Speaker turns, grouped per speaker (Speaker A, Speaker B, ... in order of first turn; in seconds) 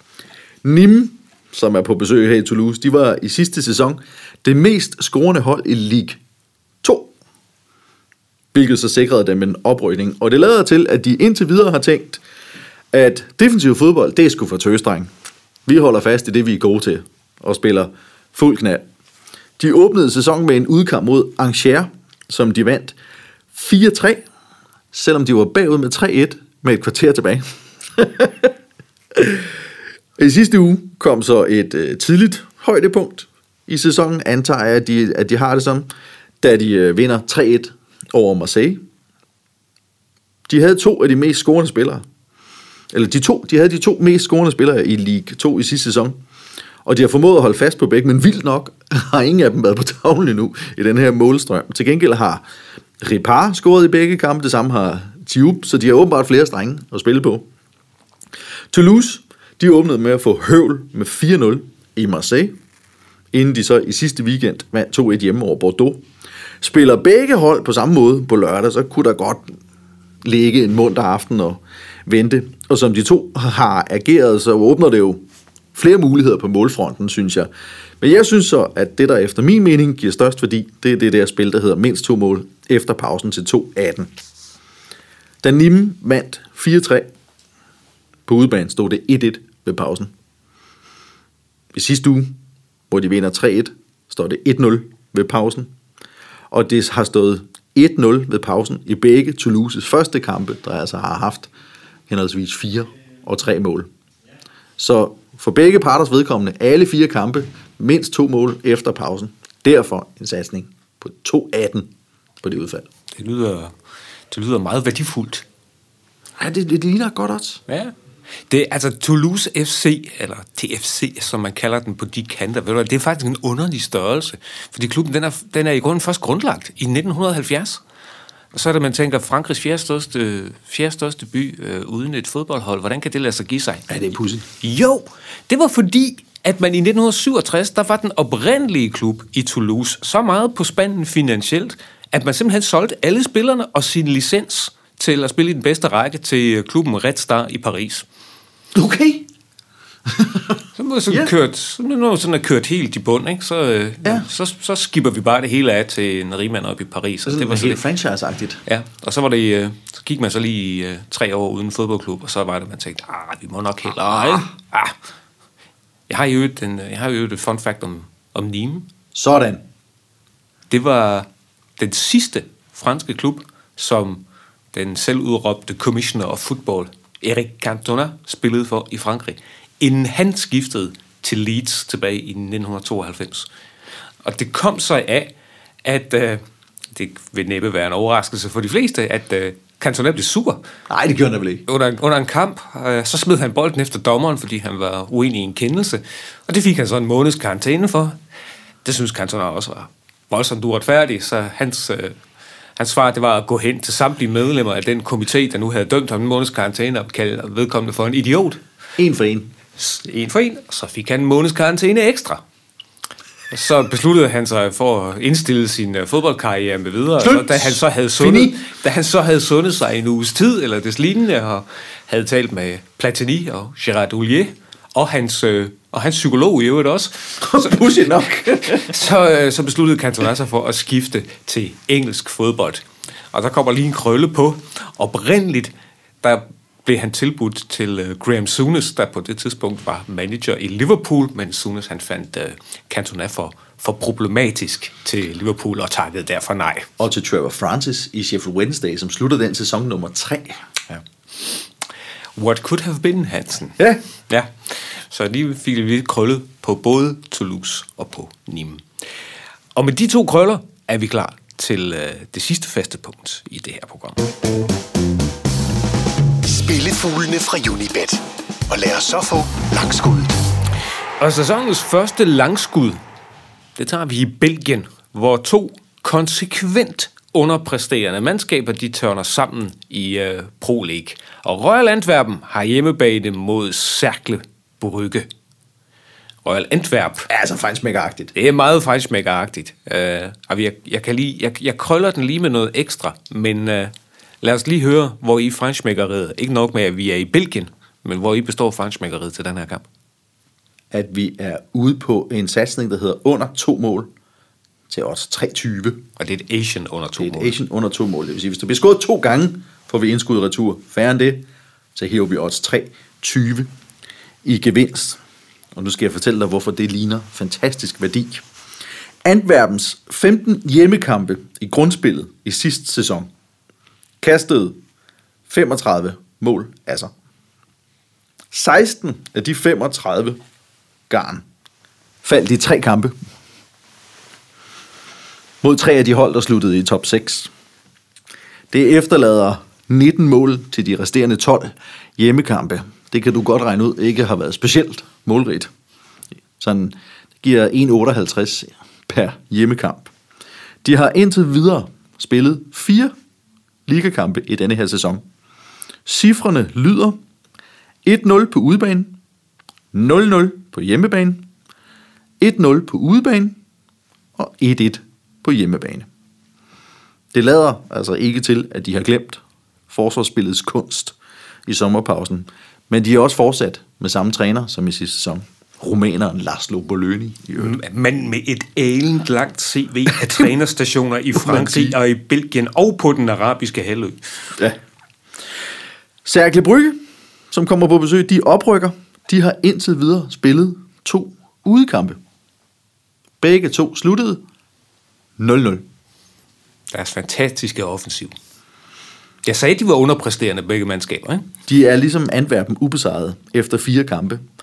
Speaker A: 0.6-6.2, 6.8-7.1, 8.5-12.2, 12.9-15.1, 15.7-18.9, 19.6-23.0, 23.5-24.2, 24.9-28.5, 29.1-29.6, 30.2-35.9, 36.4-38.8, 40.5-42.0, 42.9-46.2, 46.9-52.5, 53.0-57.5, 58.7-62.5, 63.3-66.0, 66.6-69.5, 70.2-75.2, 75.8-77.5, 78.0-84.1, 85.4-87.1, 88.3-90.1, 91.7-92.3, 92.9-95.7, 96.5-101.5, 102.1-103.9, 104.8-111.9, 112.4-112.9, 116.4-117.6, 133.9-134.4, 148.7-149.3, 150.1-150.5, 157.3-158.6, 169.1-169.6, 190.9-191.7, 209.0-209.5, 217.2-218.6, 227.4-228.9, 247.0-250.8, 287.3-288.3, 300.9-304.1, 304.9-306.0, 307.2-311.4, 311.9-313.7, 314.4-315.2, 315.8-318.4, 319.2-323.3, 324.2-324.8, 325.5-327.1, 328.5-330.4, 331.1-331.4, 332.2-333.2, 335.6-337.5, 338.7-345.7, 346.6-350.1, 350.8-353.1, 353.9-355.2, 356.1-357.2, 358.1-359.1, 359.9-361.4, 362.4-363.6, 364.4-366.1, 367.3-371.1, 371.7-377.8, 381.4-382.0, 386.2-392.2, 393.4-394.4, 395.4-395.9, 401.7-404.4
Speaker B: 113.1-113.7, 114.3-115.5, 117.7-117.9, 118.5-127.8, 128.5-133.9, 134.6-148.1, 150.8-157.8, 158.7-164.9, 166.1-168.9, 170.7-171.3, 171.8-183.5, 184.2-185.3, 185.8-186.4, 186.9-190.6, 191.7-198.2, 198.8-202.2, 202.8-208.6, 209.8-212.4, 213.5-227.8, 228.6-246.9, 252.4-258.9, 259.8-264.3, 271.2-273.0, 273.8-285.3, 286.4-287.3, 288.4-299.9, 306.2-307.6, 377.6-384.5, 396.9-398.4, 399.4-401.5
Speaker C: 266.4-270.4